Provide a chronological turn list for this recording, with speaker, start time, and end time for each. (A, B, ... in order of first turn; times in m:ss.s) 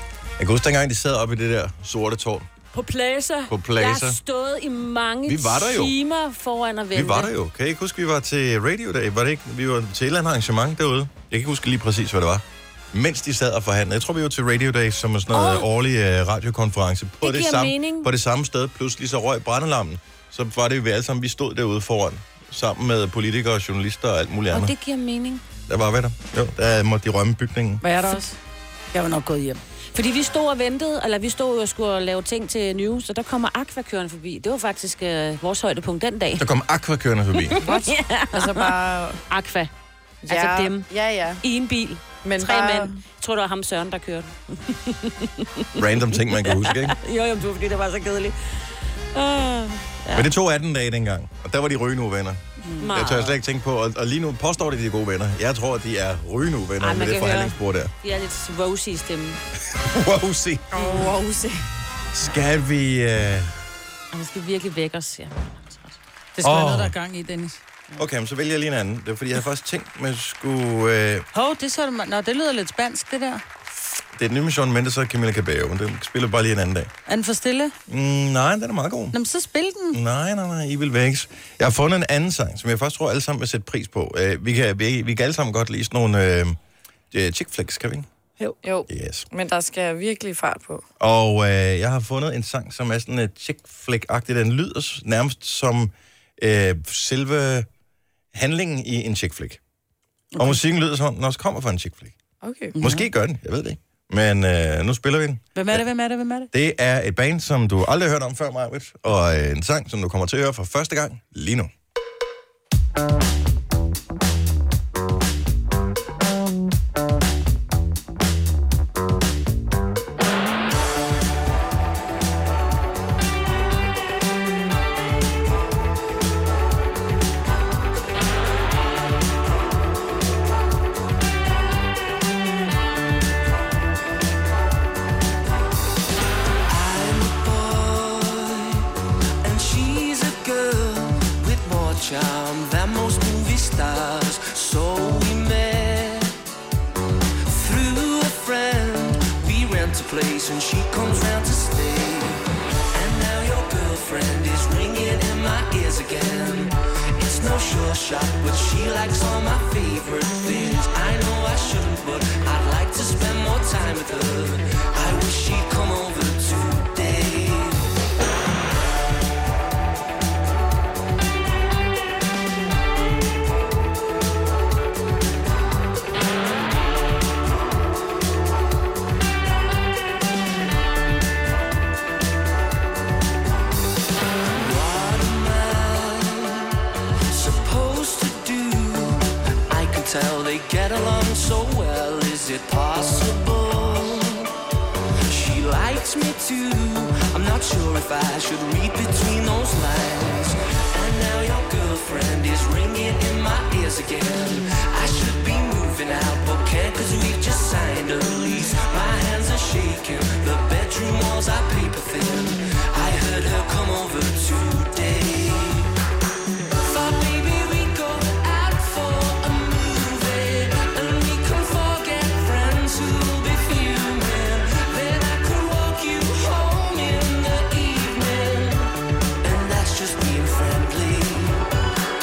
0:00.4-0:02.5 A
0:02.7-0:07.3 B
0:03.5-0:04.2 A
0:05.2-0:06.0 A
0:06.9-0:24.7 A
0:15.3-0:15.7 B
0:17.2-0:18.1 B
0:24.5-0:25.4 B
0:25.6-0:27.8 A
0:27.8-0:28.4 C
0:28.9-0:29.6 C
0:29.9-0:36.4 B
0:36.4-0:37.6 A
0:37.4-0:38.7 B
0:37.6-0:39.2 D
0:39.3-0:39.7 B
0:40.2-0:41.4 D
0:40.3-0:40.9 B
0:41.4-0:50.3 B
0:42.2-0:43.0 D
0:45.8-0:47.0 A
0:50.1-0:57.9 A
0:52.6-0:52.9 C
0:52.8-0:53.4 B
0:56.8-0:59.4 B
0:59.7-1:00.8 A
1:00.7-1:01.6 D
1:00.8-1:01.1 B
1:02.1-1:03.5 A
1:04.1-1:06.0 B
1:06.3-1:07.6 C
1:06.4-1:06.9 A
1:08.0-1:11.2 A
1:11.3-1:13.4 C
1:13.8-1:16.9 A
1:17.1-1:17.7 C
1:17.9-1:19.2 A
1:19.1-1:20.0 C
1:19.9-1:26.6 A
1:27.1-1:28.1 A
1:28.6-1:30.8 D
1:28.9-1:29.3 A
1:31.0-1:37.7 A
1:38.3-1:39.6 A
1:40.3-1:40.6 C
1:40.4-1:42.2 A
1:42.4-1:42.7 D
1:42.7-1:43.1 C
1:42.8-1:45.8 A
1:45.5-1:46.5 C
1:46.5-1:51.7 A
2:16.7-2:18.9 E
2:19.4-2:26.4 E
2:27.4-2:47.9 E
3:04.5-3:06.8 E
3:07.3-3:14.5 E
3:15.2-3:35.9 E
3:36.8-3:51.7 E